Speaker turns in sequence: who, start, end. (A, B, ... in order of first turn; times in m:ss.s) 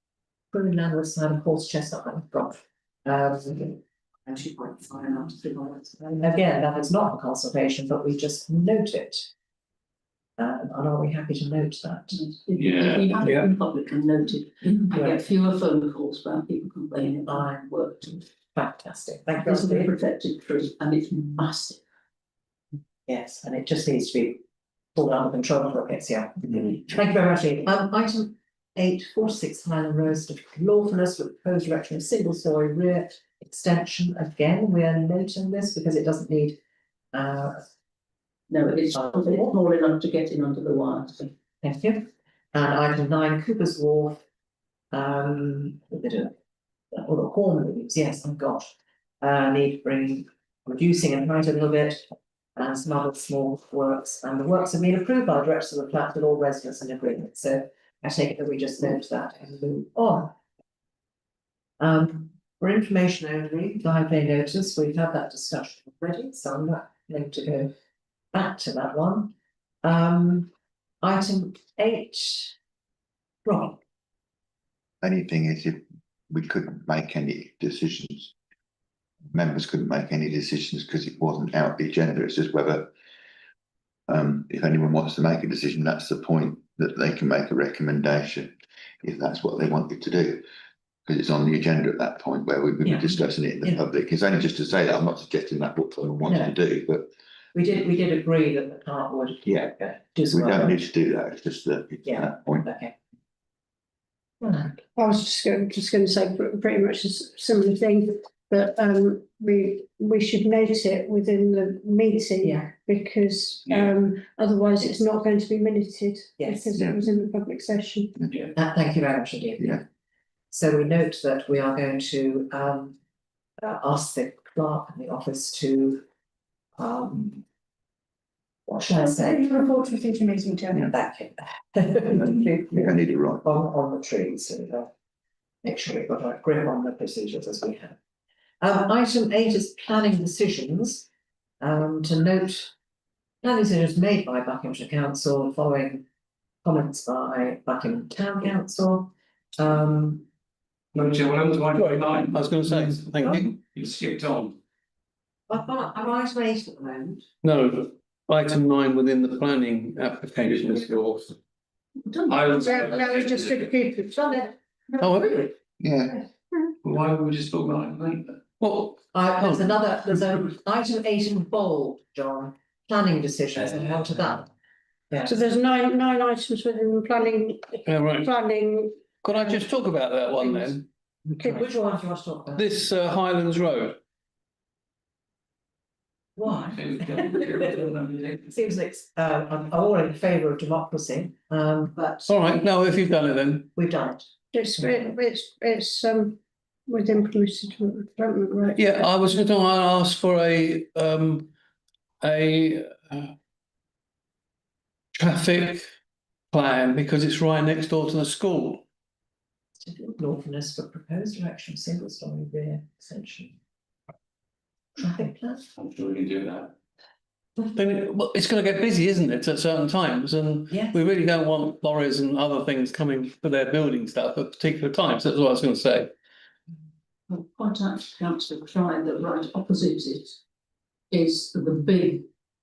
0:00.5-0:09.3 A
0:10.4-0:12.3 A
0:12.2-0:18.1 B
0:12.6-0:13.0 C
0:14.9-0:15.3 A
0:17.3-0:19.9 A
0:19.4-0:21.8 B
0:23.1-0:24.4 A
0:25.0-0:36.6 A
0:37.1-0:37.6 A
0:38.5-0:41.3 B
0:39.0-0:39.5 A
0:41.6-0:44.2 A
0:44.9-0:46.3 A
0:46.9-1:00.4 A
1:01.8-1:07.7 A
1:08.3-1:09.3 A
1:09.8-1:10.5 A
1:11.0-1:12.6 A
1:13.4-1:13.8 A
1:15.0-1:18.3 D
1:19.3-1:22.9 D
1:24.1-1:30.4 D
1:31.1-1:37.1 D
1:32.8-1:33.8 A
1:36.3-1:36.5 A
1:37.5-1:40.8 A
1:40.3-1:42.7 D
1:42.0-1:43.0 A
1:44.4-1:44.8 A
1:45.0-1:58.2 E
1:53.7-1:53.9 C
1:56.4-1:56.7 A
1:58.5-1:59.8 A
2:00.5-2:03.0 A
2:03.6-2:06.0 A
2:06.8-2:07.4 A
2:08.7-2:09.5 A
2:09.0-2:10.9 E
2:10.9-2:14.9 A
2:12.2-2:13.4 D
2:15.6-2:18.0 A
2:18.6-2:21.1 A
2:21.6-2:22.7 A
2:23.4-2:26.0 A
2:26.6-2:30.3 A
2:30.9-2:34.6 C
2:31.7-2:33.5 F
2:35.5-2:37.2 A
2:37.4-2:41.3 F
2:42.3-2:43.7 C
2:42.4-2:44.5 E
2:45.0-2:45.4 F
2:45.8-2:46.2 D
2:46.8-2:48.4 C
2:48.6-2:49.8 F
2:49.1-2:54.5 A
2:55.2-2:59.0 E
2:57.9-2:58.3 F
2:59.2-3:00.8 F
3:01.3-3:02.8 A
3:01.4-3:01.7 E
3:02.6-3:04.0 F
3:06.4-3:07.7 A
3:06.7-3:08.4 C
3:08.4-3:12.9 A
3:12.3-3:13.7 F
3:13.7-3:14.3 A
3:14.5-3:18.8 E
3:14.8-3:15.1 A
3:18.8-3:21.5 F
3:22.2-3:23.3 F
3:25.2-3:25.8 F
3:26.5-3:28.8 F
3:29.8-3:33.6 A
3:35.0-3:35.6 A
3:35.8-3:36.7 C
3:37.7-3:46.1 F
3:40.7-3:41.0 A
3:47.3-3:50.4 B
3:51.1-3:52.3 B